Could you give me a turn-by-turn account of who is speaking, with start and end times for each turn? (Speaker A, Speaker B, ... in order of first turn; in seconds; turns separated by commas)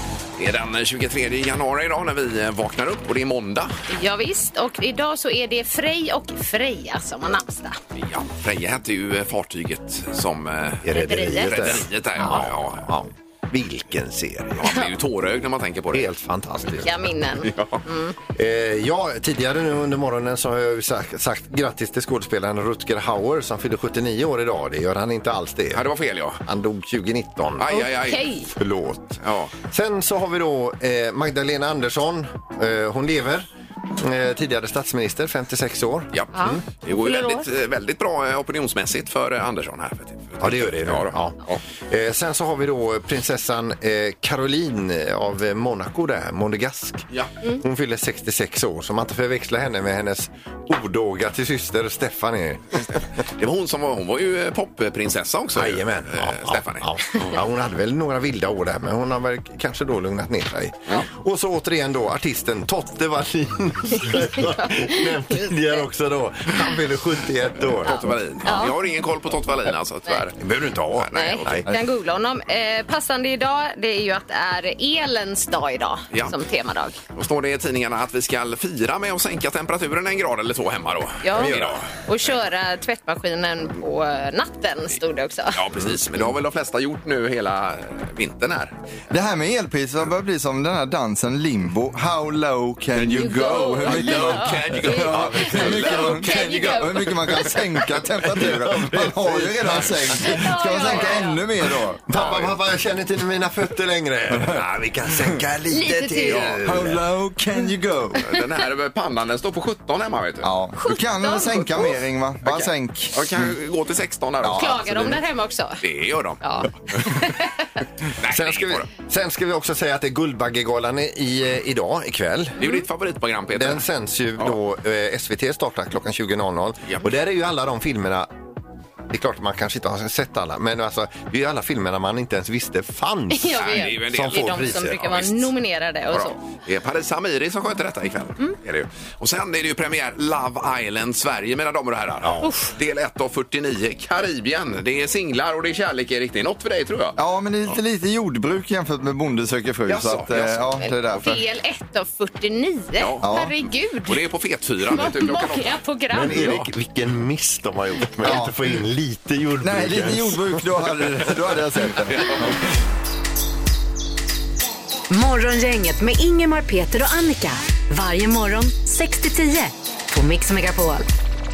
Speaker A: 0.4-3.8, Speaker B: 3.9-7.8, Speaker A: 7.9-13.0, Speaker C: 10.8-14.7, Speaker B: 10.9-12.4, Speaker A: 14.6-16.1, Speaker C: 15.9-17.1, Speaker B: 16.8-18.1, Speaker A: 17.4-17.8, Speaker C: 18.3-25.9, Speaker A: 25.7-26.4, Speaker C: 26.4-27.9, Speaker A: 27.6-28.2, Speaker B: 27.7-28.5, Speaker C: 28.5-36.6, Speaker A: 29.2-29.5, Speaker A: 36.1-41.6, Speaker B: 36.3-37.5, Speaker C: 40.4-52.9, Speaker A: 53.4-57.4, Speaker C: 55.5-68.6, Speaker B: 63.9-65.8, Speaker A: 67.8-71.7, Speaker B: 67.9-68.8, Speaker C: 70.4-71.7, Speaker B: 71.1-77.0, Speaker A: 77.1-81.9, Speaker B: 81.2-85.6, Speaker C: 81.3-81.8, Speaker A: 85.5-88.7, Speaker C: 85.7-86.2, Speaker D: 89.1-102.0, Speaker A: 92.9-97.5, Speaker B: 93.1-97.6, Speaker C: 98.2-100.5, Speaker B: 100.2-101.4, Speaker C: 102.1-107.0, Speaker A: 102.2-102.5, Speaker B: 105.7-106.5, Speaker D: 106.6-108.3, Speaker A: 108.2-110.5, Speaker D: 110.4-113.2, Speaker B: 110.8-111.9, Speaker A: 112.4-115.2, Speaker B: 114.5-115.8, Speaker A: 115.8-117.2, Speaker B: 116.4-117.6, Speaker A: 118.1-118.9, Speaker C: 118.2-122.6, Speaker A: 122.6-123.8, Speaker C: 123.5-128.3, Speaker C: 129.1-135.2, Speaker B: 133.3-136.4, Speaker A: 133.6-135.5, Speaker A: 136.1-147.2, Speaker C: 142.2-142.5, Speaker B: 142.4-142.7, Speaker D: 147.2-151.4, Speaker A: 149.9-150.7, Speaker B: 150.8-154.2, Speaker A: 153.0-153.3, Speaker D: 153.2-153.5, Speaker A: 154.1-156.6, Speaker B: 154.9-156.5, Speaker C: 156.1-160.7, Speaker D: 158.2-158.5, Speaker D: 159.6-162.6, Speaker E: 165.1-171.1